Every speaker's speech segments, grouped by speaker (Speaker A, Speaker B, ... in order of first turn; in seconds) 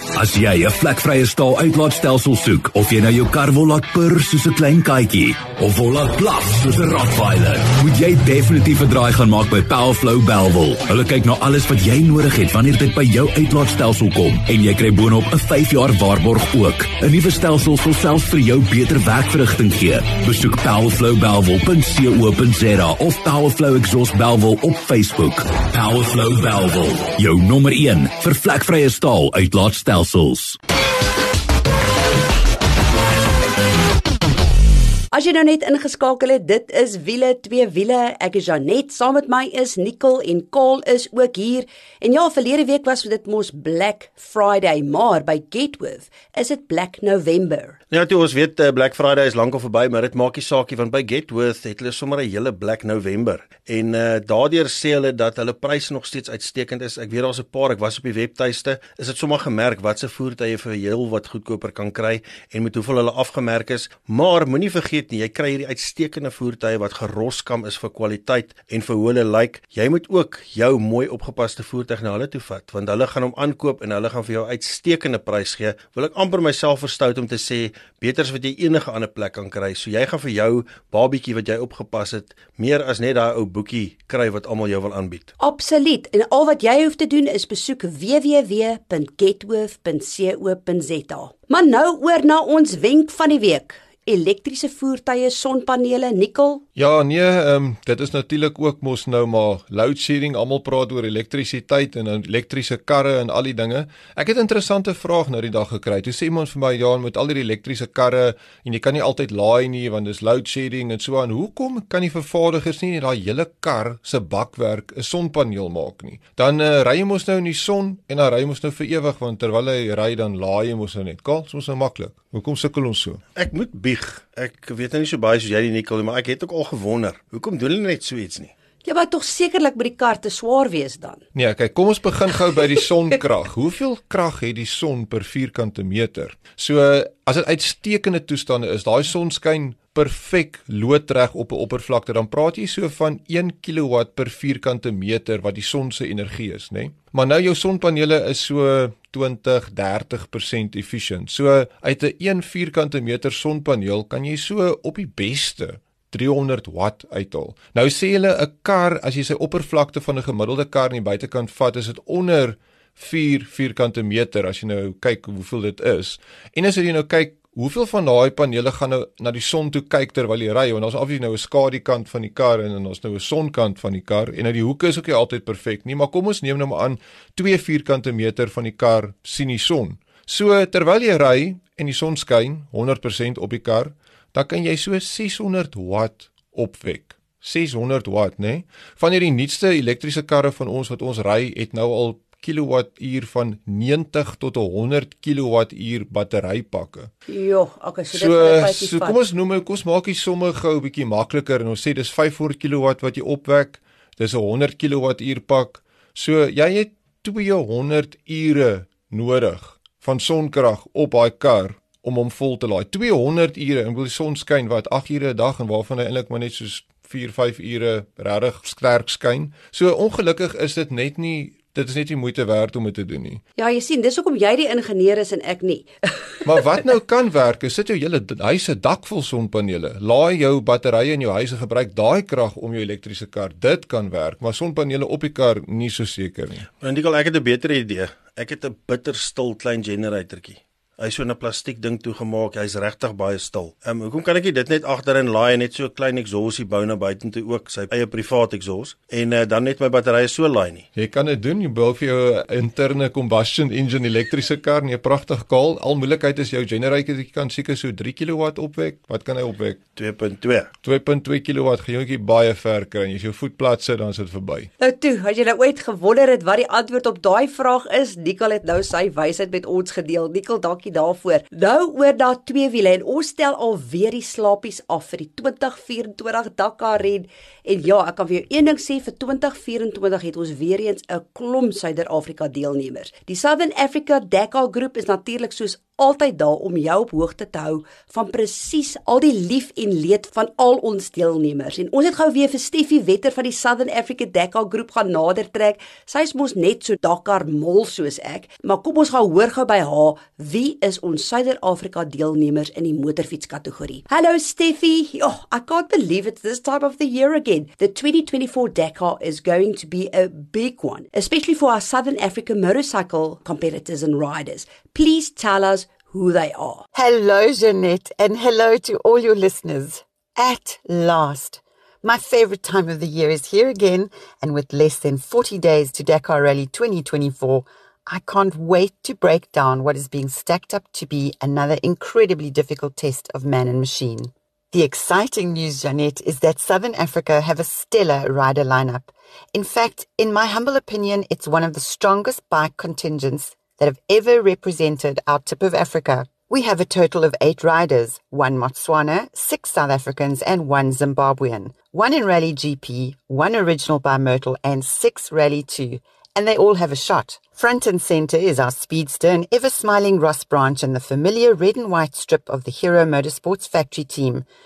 Speaker A: 0.1-30.6
Speaker B: 35.1-47.8, 85.4-96.6, 128.8-131.2, 197.3-199.2, 223.6-226.2, 264.8-316.8
Speaker C: 47.9-85.3, 123.3-128.5, 236.8-250.9, 259.9-260.7
Speaker D: 96.8-123.2, 131.3-197.1, 198.1-223.4, 226.4-236.7, 250.9-259.8, 260.8-264.7
Speaker E: 316.9-364.4